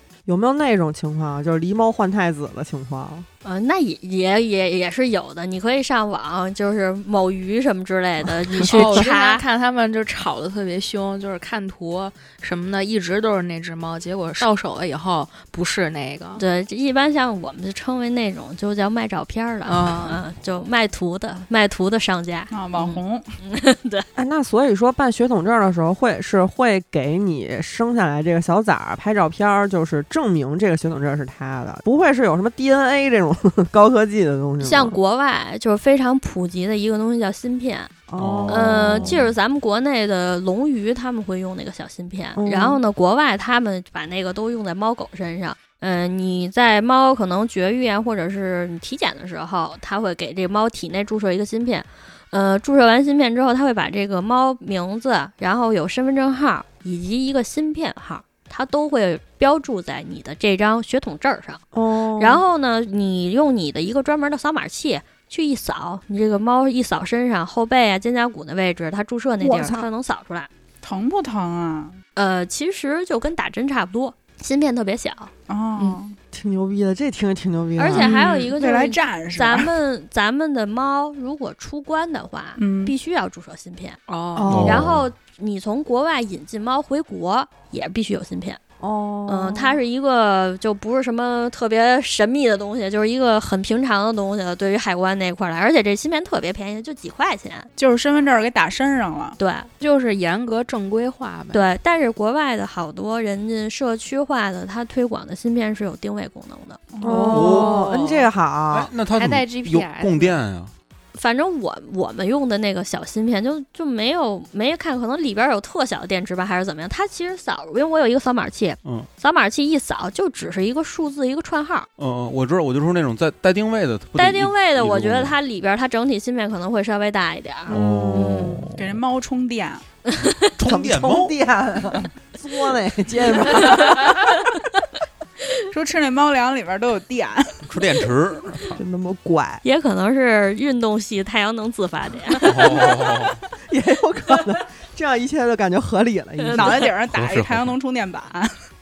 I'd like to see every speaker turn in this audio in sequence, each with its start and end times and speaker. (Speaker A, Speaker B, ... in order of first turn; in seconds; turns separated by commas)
Speaker A: 0.2-3.3, Speaker B: 3.4-9.4, Speaker C: 8.6-16.4, Speaker B: 16.4-24.1, Speaker C: 19.6-20.2, Speaker D: 22.5-23.2, Speaker A: 24.1-35.0, Speaker B: 34.6-37.9, Speaker A: 38.1-39.2, Speaker E: 38.2-39.2, Speaker B: 38.5-61.6, Speaker A: 42.4-42.8, Speaker A: 61.7-62.4, Speaker B: 62.2-70.5, Speaker A: 69.4-69.9, Speaker D: 70.8-72.0, Speaker B: 72.2-75.9, Speaker D: 75.5-76.2, Speaker A: 76.3-78.3, Speaker B: 77.8-84.0, Speaker D: 77.9-79.7, Speaker D: 82.6-82.9, Speaker C: 84.1-84.6, Speaker A: 84.3-85.0, Speaker E: 84.5-85.0, Speaker B: 84.6-88.6, Speaker A: 88.8-89.8, Speaker B: 89.3-97.7, Speaker D: 97.8-99.4, Speaker B: 99.4-99.7, Speaker C: 99.8-101.7, Speaker B: 101.5-106.8, Speaker D: 106.9-107.7, Speaker A: 107.0-108.9, Speaker C: 107.0-108.0, Speaker E: 107.3-107.9, Speaker E: 108.7-110.7, Speaker C: 109.1-110.4, Speaker B: 111.1-121.9, Speaker E: 122.0-125.3, Speaker B: 124.2-127.8, Speaker E: 127.7-129.0, Speaker A: 127.7-128.6, Speaker D: 128.8-129.8, Speaker B: 130.1-130.5, Speaker E: 130.5-131.3, Speaker A: 130.7-133.9, Speaker B: 133.6-134.5, Speaker D: 135.7-137.7, Speaker E: 137.7-138.8, Speaker A: 138.8-139.6, Speaker B: 139.6-142.8, Speaker E: 142.4-143.4, Speaker A: 143.6-146.9, Speaker B: 146.4-146.9, Speaker D: 146.5-148.5, Speaker E: 147.1-147.7